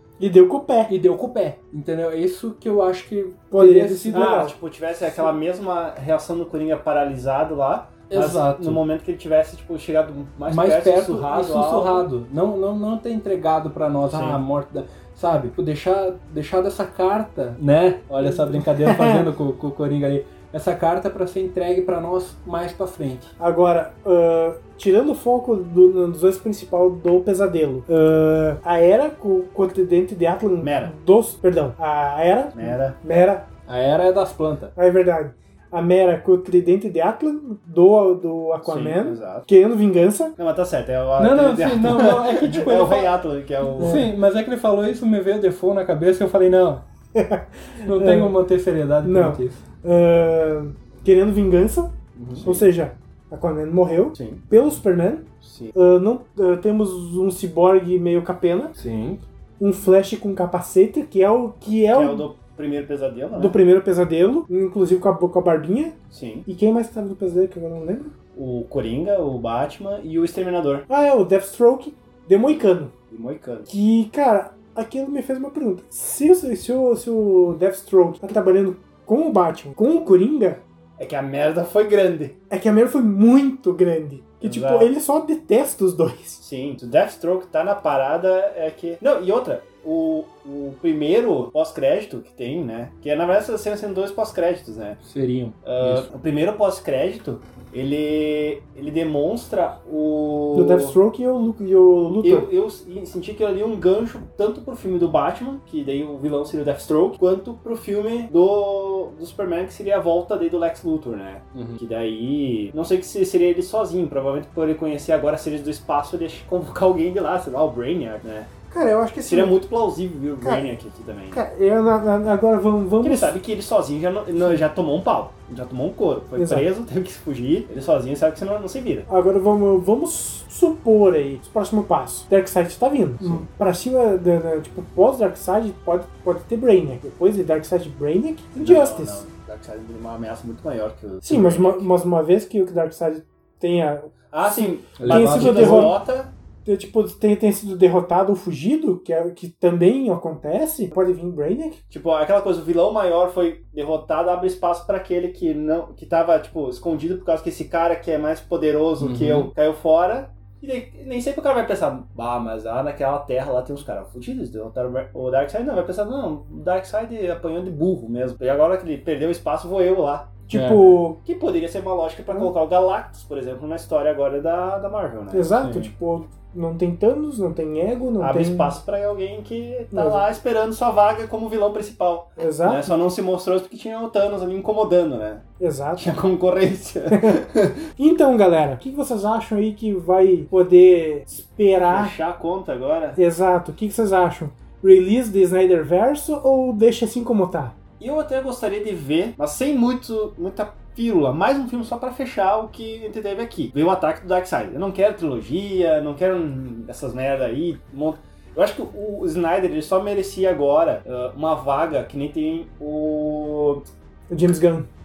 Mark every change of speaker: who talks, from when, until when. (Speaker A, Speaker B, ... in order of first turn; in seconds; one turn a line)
Speaker A: 0.2-0.9
Speaker B: 0.9-4.5
Speaker A: 3.5-4.5
Speaker C: 4.1-12.1
Speaker B: 8.1-8.8
Speaker B: 10.5-23.3
Speaker C: 14.1-14.4
Speaker A: 18.2-19.3
Speaker A: 23.4-33.5
Speaker C: 30.6-30.9
Speaker C: 32.5-33.0
Speaker B: 33.7-34.7
Speaker A: 34.8-40.4
Speaker C: 38.6-39.5
Speaker C: 40.4-44.1
Speaker B: 41.2-43.1
Speaker A: 43.8-44.1
Speaker B: 43.8-46.8
Speaker A: 47.1-48.3
Speaker B: 47.8-49.6
Speaker A: 49.0-58.7
Speaker C: 52.1-52.7
Speaker C: 54.1-54.4
Speaker C: 55.4-55.7
Speaker B: 58.8-59.2
Speaker A: 59.6-62.3
Speaker C: 61.9-63.6
Speaker A: 63.3-68.1
Speaker C: 66.1-66.5
Speaker C: 68.3-70.8
Speaker A: 70.9-72.9
Speaker C: 73.1-73.7
Speaker A: 73.7-80.6
Speaker C: 81.0-82.4
Speaker A: 82.5-86.4
Speaker C: 84.4-84.9
Speaker C: 86.4-95.0
Speaker B: 95.0-96.1
Speaker C: 95.6-101.0
Speaker A: 100.5-102.5
Speaker C: 102.2-118.5
Speaker B: 111.5-111.8
Speaker A: 118.7-119.6
Speaker C: 119.2-121.4
Speaker A: 120.4-120.7
Speaker A: 121.3-123.3
Speaker C: 123.0-129.1
Speaker A: 126.3-126.7
Speaker A: 129.1-139.2
Speaker C: 133.2-133.4
Speaker C: 138.6-141.9
Speaker A: 141.2-145.9
Speaker C: 144.3-146.3
Speaker B: 145.0-145.9
Speaker A: 146.6-151.8
Speaker C: 151.9-170.5
Speaker B: 159.0-159.5
Speaker A: 170.5-171.2
Speaker B: 170.5-171.0
Speaker C: 171.2-175.5
Speaker A: 175.3-178.8
Speaker B: 175.6-175.9
Speaker C: 178.2-185.4
Speaker A: 179.9-180.2
Speaker A: 182.4-182.9
Speaker A: 185.6-186.1
Speaker C: 186.0-187.8
Speaker A: 187.1-187.4
Speaker A: 188.0-192.1
Speaker C: 191.8-193.2
Speaker A: 193.2-197.7
Speaker C: 198.0-213.8
Speaker A: 214.3-214.9